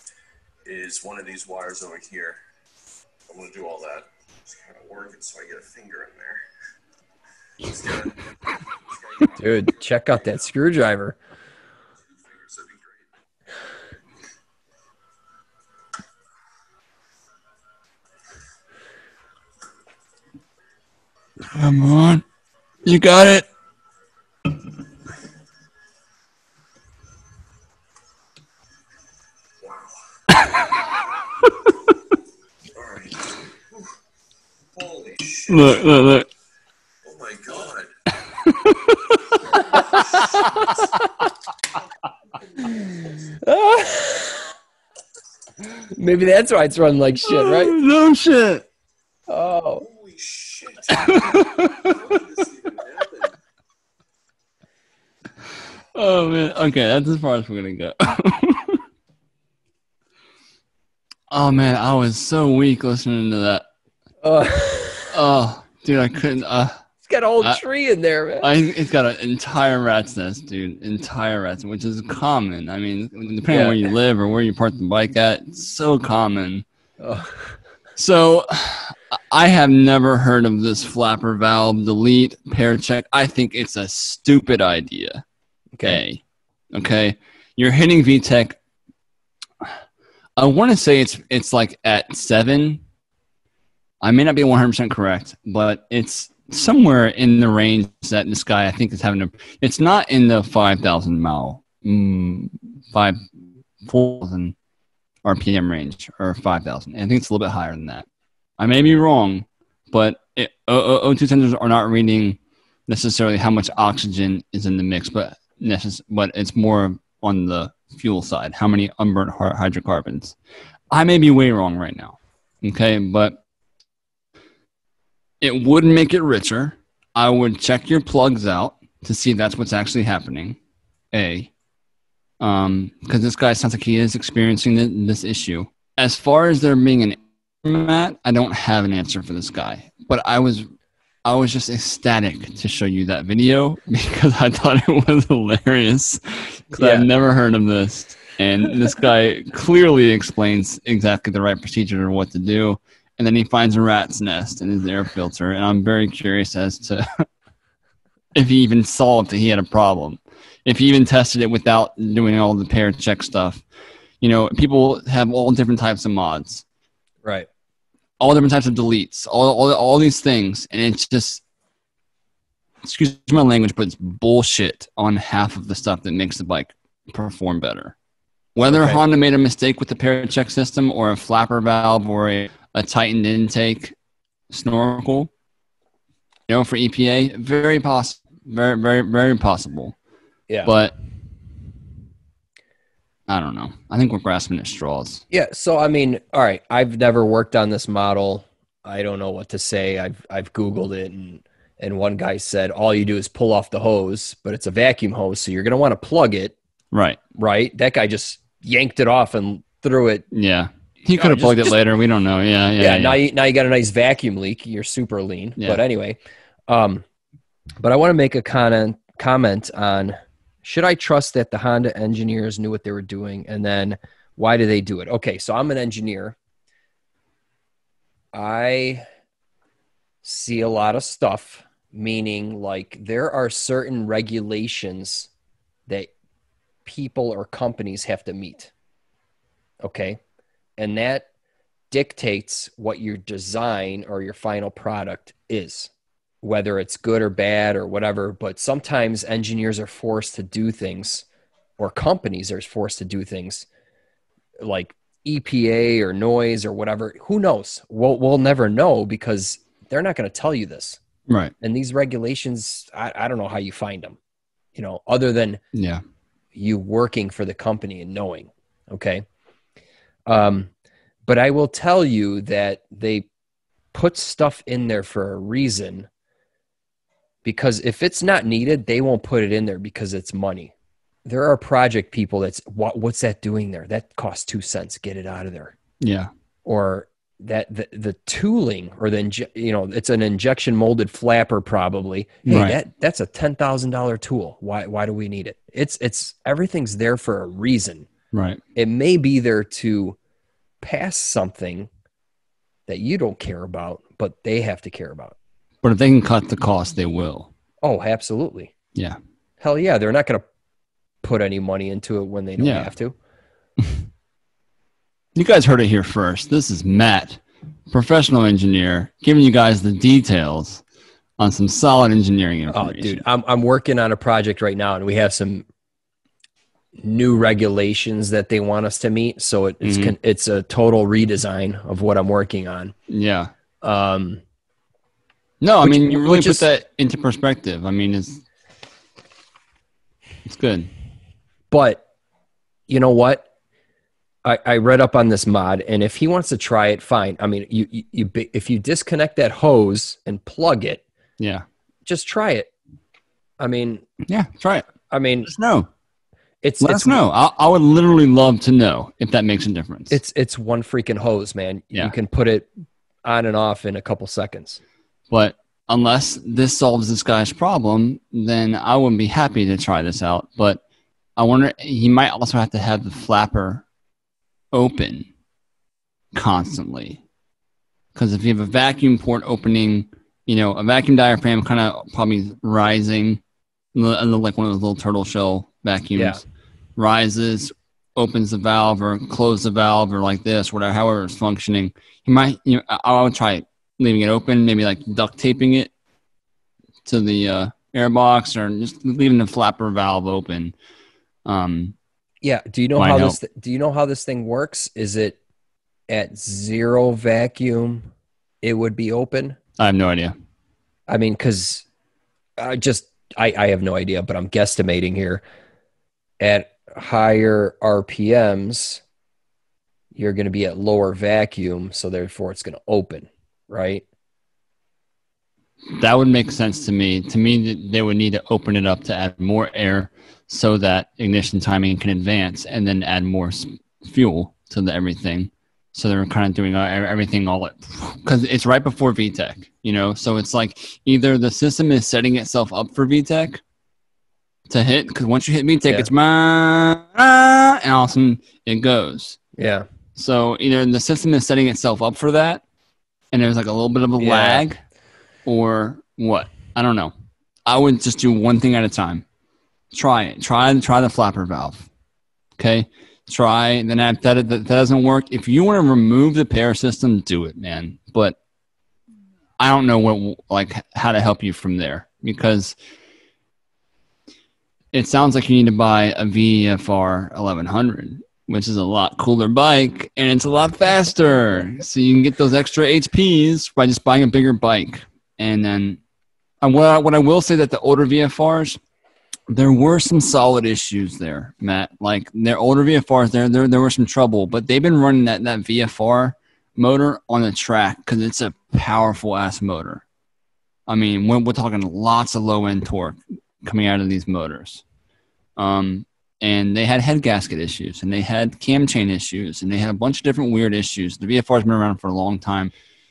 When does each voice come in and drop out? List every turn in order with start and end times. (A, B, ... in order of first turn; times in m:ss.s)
0:00.6-0:02.4 A
0:03.3-0:06.4 A
0:07.6-0:09.9 A
0:09.3-0:11.2 B
0:12.1-0:13.1 A
0:21.4-0:22.2 C
0:22.8-0:23.5 C
0:29.6-0:29.9 A
0:30.4-0:30.6 C
0:32.7-0:33.9 A
0:34.7-0:36.0 A
0:35.5-0:36.3 C
0:37.0-0:37.9 A
0:38.3-0:40.7 C
0:39.5-0:40.7 A
0:43.1-0:44.5 B
0:45.8-0:47.8 B
0:47.2-0:48.6 C
0:49.3-0:49.8 B
0:49.8-0:53.4 A
0:50.9-0:52.2 C
0:55.9-0:58.8 C
1:01.3-1:03.6 C
1:04.2-1:05.2 B
1:05.1-1:06.8 C
1:07.0-1:08.5 B
1:08.4-1:16.6 C
1:13.5-1:13.9 B
1:17.0-1:17.6 B
1:18.0-1:25.2 C
1:25.8-1:26.0 B
1:25.8-1:28.6 C
1:30.4-1:32.8 C
1:34.0-1:43.2 C
1:43.8-1:44.5 C
1:45.2-1:48.1 C
1:48.6-2:00.4 C
2:00.9-2:03.4 C
2:05.4-2:10.6 C
2:11.1-2:11.5 C
2:12.4-2:20.7 C
2:21.2-2:37.2 C
2:26.8-2:27.1 B
2:38.3-2:43.6 C
2:44.2-2:46.6 C
2:48.2-2:51.4 C
2:52.8-2:57.9 C
2:58.5-3:03.9 C
2:58.6-2:59.0 B
3:04.5-3:05.3 C
3:06.5-3:10.0 C
3:10.6-3:10.9 C
3:13.3-3:15.2 C
3:15.3-3:26.5 B
3:26.9-3:27.2 C
3:27.3-3:30.2 B
3:30.3-3:33.2 C
3:31.1-3:31.8 B
3:32.8-3:36.2 B
3:36.7-3:37.0 B
3:37.8-3:46.4 B
3:48.3-3:49.0 B
3:50.2-3:55.3 B
3:56.8-3:58.7 B
3:59.8-4:00.2 B
4:00.8-4:01.2 B
4:01.9-4:05.9 B
4:06.4-4:11.2 B
4:11.8-4:13.6 B
4:14.6-4:21.0 B
4:21.3-4:21.5 C
4:21.6-4:24.2 B
4:24.7-4:25.6 B
4:25.7-4:26.0 C
4:26.5-4:29.2 B
4:30.3-4:30.7 B
4:31.3-4:33.3 B
4:33.9-4:36.1 B
4:37.4-4:40.7 B
4:41.2-4:45.7 B
4:46.0-4:46.3 C
4:46.6-4:58.1 B
4:52.4-4:52.8 C
4:58.3-4:58.6 C
4:58.7-5:00.2 B
5:00.8-5:01.9 B
5:02.9-5:05.4 B
5:05.8-5:07.5 C
5:07.8-5:08.7 B
5:09.6-5:10.4 B
5:11.2-5:13.2 B
5:12.6-5:12.9 C
5:15.3-5:20.8 C
5:21.4-5:23.2 C
5:22.7-5:25.6 B
5:27.0-5:32.9 B
5:29.8-5:30.1 C
5:33.1-5:33.5 C
5:33.8-5:34.4 B
5:35.6-5:38.4 C
5:35.8-5:36.6 B
5:40.4-5:40.9 C
5:41.7-5:42.0 B
5:42.9-5:43.4 B
5:44.4-5:51.0 B
5:51.4-5:51.6 C
5:52.0-5:52.7 B
5:53.6-5:54.0 B
5:54.2-5:54.9 C
5:55.1-5:55.5 B
5:55.4-5:55.9 C
5:56.6-5:57.2 B
5:56.8-6:00.2 C
6:00.1-6:02.7 B
6:03.2-6:04.8 B
6:05.3-6:10.8 C
6:11.4-6:13.8 C
6:14.7-6:15.3 C
6:16.3-6:17.2 C
6:18.1-6:23.4 C
6:23.9-6:26.4 C
6:26.2-6:26.4 B
6:27.0-6:35.9 C
6:37.0-6:40.7 C
6:41.4-6:41.9 C
6:42.4-6:45.4 B
6:43.0-6:43.4 C
6:46.1-6:48.1 B
6:48.6-6:49.6 B
6:49.8-6:50.3 C
6:51.1-6:51.8 B
6:52.6-6:55.4 B
6:56.4-6:59.0 B
7:00.1-7:04.0 B
7:05.9-7:23.6 C
7:24.7-7:29.4 C
7:29.6-7:29.8 B
7:30.2-7:32.6 C
7:33.3-7:34.8 C
7:34.2-7:34.6 B
7:35.4-7:37.1 C
7:37.6-7:39.2 C
7:39.9-7:41.9 C
7:42.6-7:48.4 C
7:49.6-7:52.8 C
7:54.9-8:06.0 C
8:06.6-8:08.8 C
8:09.5-8:20.0 C
8:20.9-8:24.8 C
8:25.6-8:32.7 C